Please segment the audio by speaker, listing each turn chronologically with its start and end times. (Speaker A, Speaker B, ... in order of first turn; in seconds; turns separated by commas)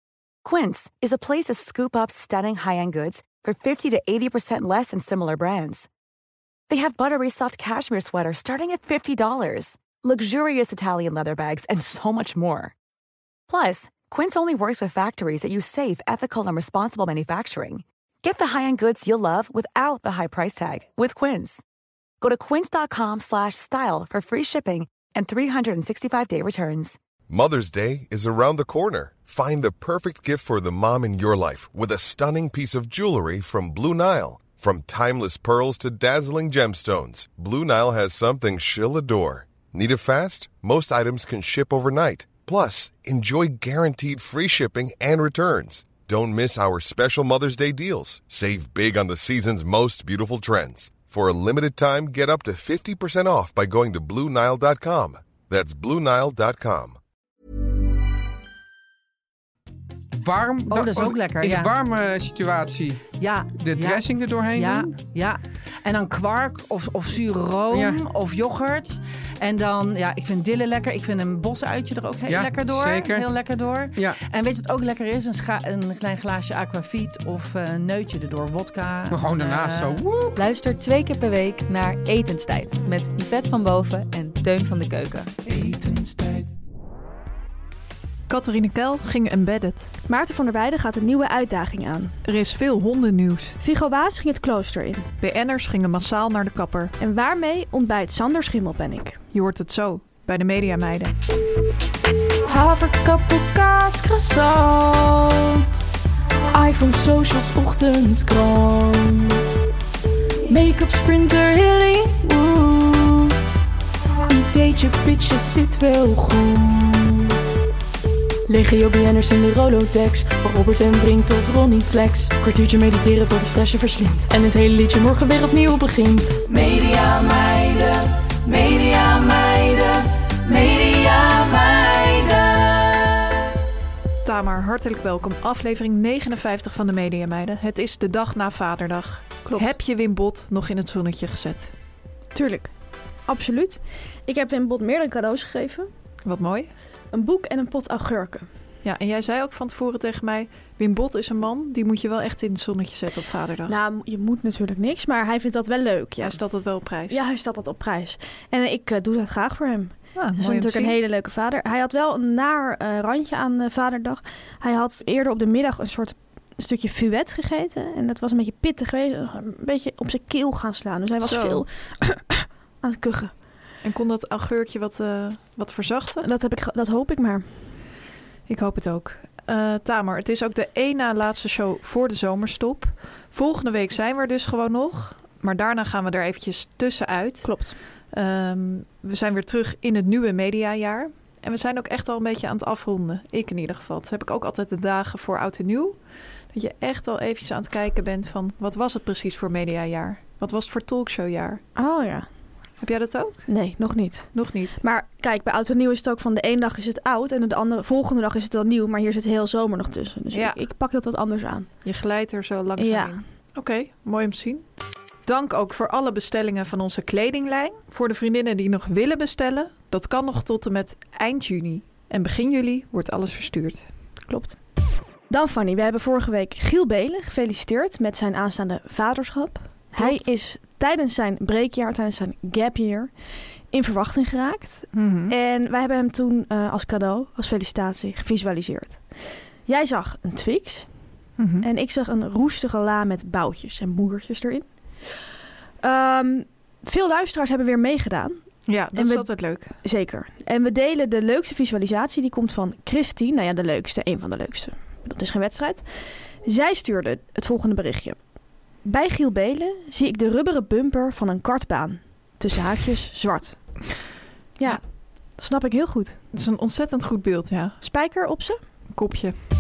Speaker A: 0.4-5.9, Speaker A: 6.7-12.7, Speaker A: 13.5-21.6, Speaker A: 22.2-27.0, Speaker B: 27.3-57.0, Speaker C: 60.2-64.9, Speaker D: 60.7-61.7, Speaker D: 63.2-80.0, Speaker C: 67.7-68.0, Speaker C: 72.3-73.3, Speaker C: 79.1-80.4, Speaker E: 80.4-85.3, Speaker F: 85.6-86.2, Speaker G: 88.3-89.9, Speaker H: 90.1-92.1, Speaker G: 92.2-93.5, Speaker H: 93.6-95.0, Speaker G: 95.2-96.9, Speaker H: 97.0-99.2, Speaker G: 99.3-101.2, Speaker F: 102.5-105.7, Speaker F: 106.5-109.5, Speaker F: 110.5-113.4, Speaker F: 114.3-117.4, Speaker F: 118.5-133.3, Speaker G: 134.2-141.7, Speaker H: 142.3-142.7, Speaker H: 143.3-145.9, Speaker G: 146.2-146.7, Speaker H: 147.1-148.5, Speaker G: 148.8-153.8, Speaker H: 153.7-156.4, Speaker G: 156.2-157.2, Speaker H: 157.1-173.3, Speaker G: 160.2-161.0, Speaker G: 171.2-171.6, Speaker G: 173.8-176.2, Speaker H: 176.2-177.7, Speaker G: 178.5-196.0, Speaker H: 187.4-187.8, Speaker G: 196.5-201.6, Speaker H: 201.8-202.3, Speaker G: 202.8-203.5, Speaker H: 203.5-211.7, Speaker G: 204.3-204.8, Speaker G: 210.3-210.6, Speaker G: 211.8-214.6, Speaker H: 212.8-213.2, Speaker G: 215.2-223.8, Speaker H: 224.3-224.6, Speaker H: 225.3-233.1, Speaker G: 229.9-230.2, Speaker H: 233.7-239.0, Speaker G: 234.9-235.3, Speaker H: 239.6-240.9, Speaker G: 241.4-241.7, Speaker H: 241.6-244.6, Speaker H: 245.8-248.4, Speaker G: 248.7-249.7, Speaker H: 248.9-255.9, Speaker H: 256.4-258.2, Speaker H: 258.8-263.6, Speaker H: 265.4-266.2, Speaker G: 266.3-267.8, Speaker H: 267.8-268.6, Speaker G: 268.9-269.4